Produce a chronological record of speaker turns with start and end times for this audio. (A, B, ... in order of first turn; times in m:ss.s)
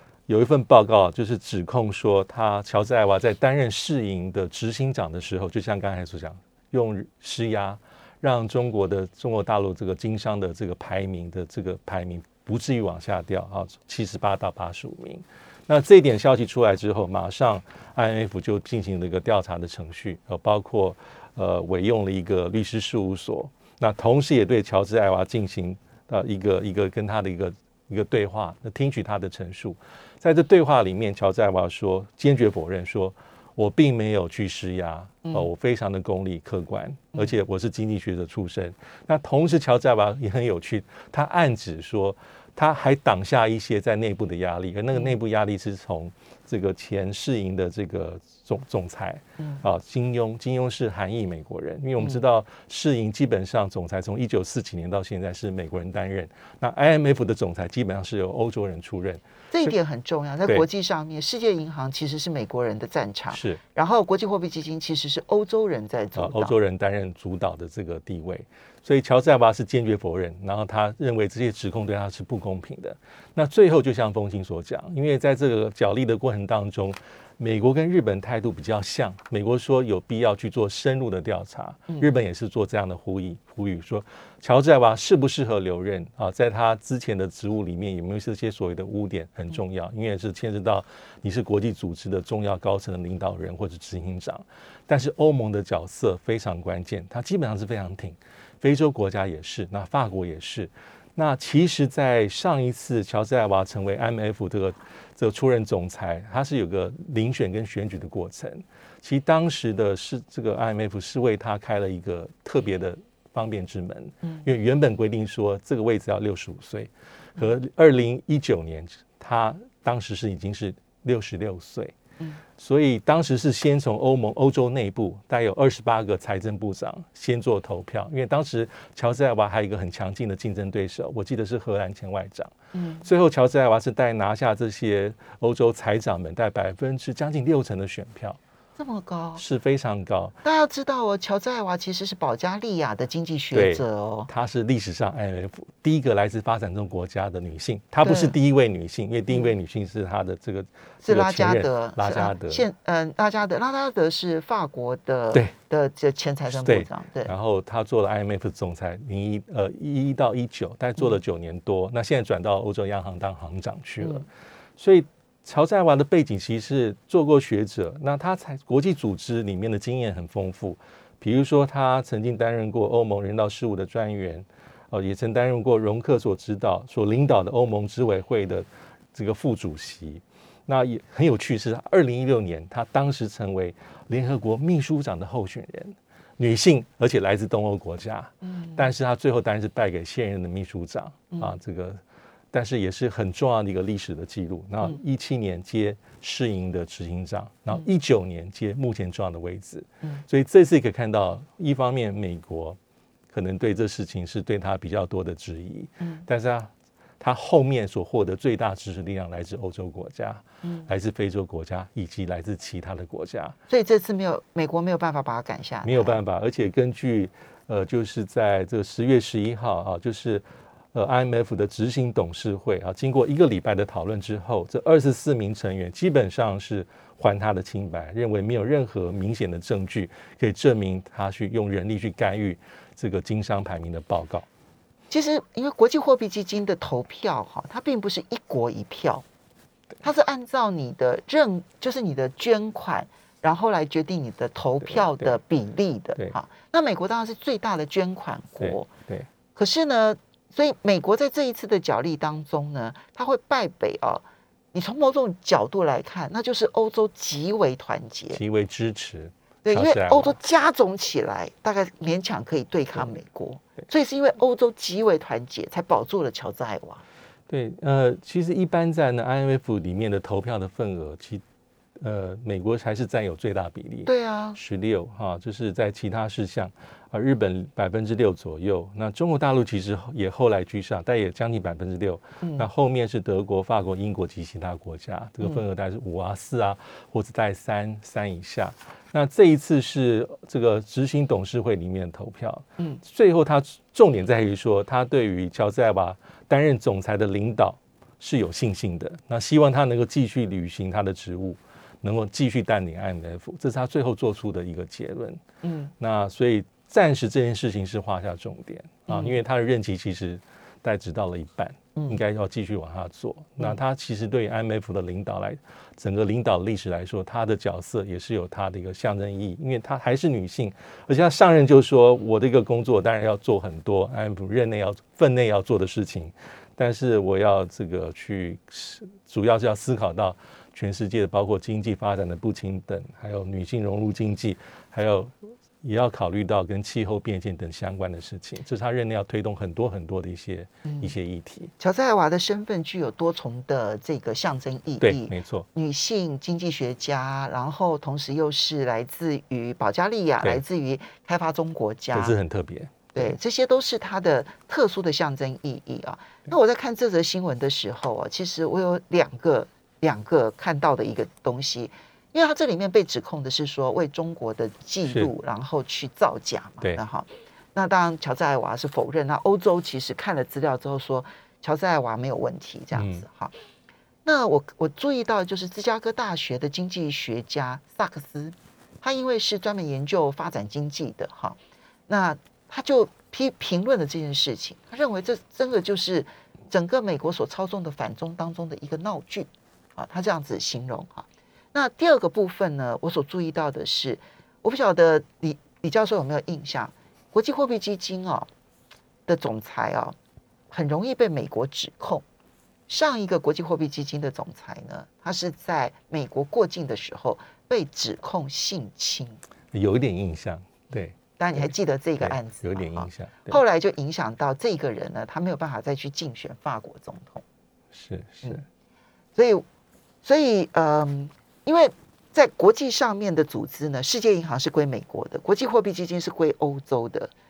0:00.3-0:59.7 A
0:59.5-1:06.6 B
1:03.3-1:03.6 A
1:06.2-2:02.0 A
2:02.6-2:12.5 A
2:12.7-2:13.0 B
2:13.0-2:18.4 A
2:18.8-2:19.4 B
2:19.4-2:20.4 A
2:20.4-2:24.3 B
2:23.5-2:32.7 A
2:28.0-2:28.4 B
2:31.0-2:37.3 B
2:36.5-3:22.8 A
3:08.4-3:08.8 B
3:23.3-3:33.6 A
3:33.7-3:36.2 B
3:35.8-3:54.5 A
3:55.1-3:59.2 B
4:00.0-4:08.9 B
4:04.8-4:05.4 A
4:08.6-4:09.3 A
4:09.6-4:18.4 B
4:18.3-4:20.4 A
4:19.6-4:27.0 B
4:27.5-4:31.4 A
4:32.0-5:05.4 A
4:34.1-4:34.6 B
4:42.4-4:42.7 B
5:05.6-5:05.9 B
5:06.0-5:41.7 A
5:09.1-5:09.4 B
5:40.8-5:41.1 B
5:41.8-5:52.4 B
5:45.0-5:45.7 A
5:52.1-5:53.3 A
5:53.2-6:13.5 B
6:12.9-6:13.3 A
6:14.2-6:38.5 B
6:39.3-6:40.2 B
6:40.7-6:42.2 B
6:42.9-6:49.4 B
6:49.7-6:53.6 A
6:51.3-6:57.4 B
6:57.9-6:58.6 A
6:59.4-6:59.6 B
7:00.2-7:07.3 B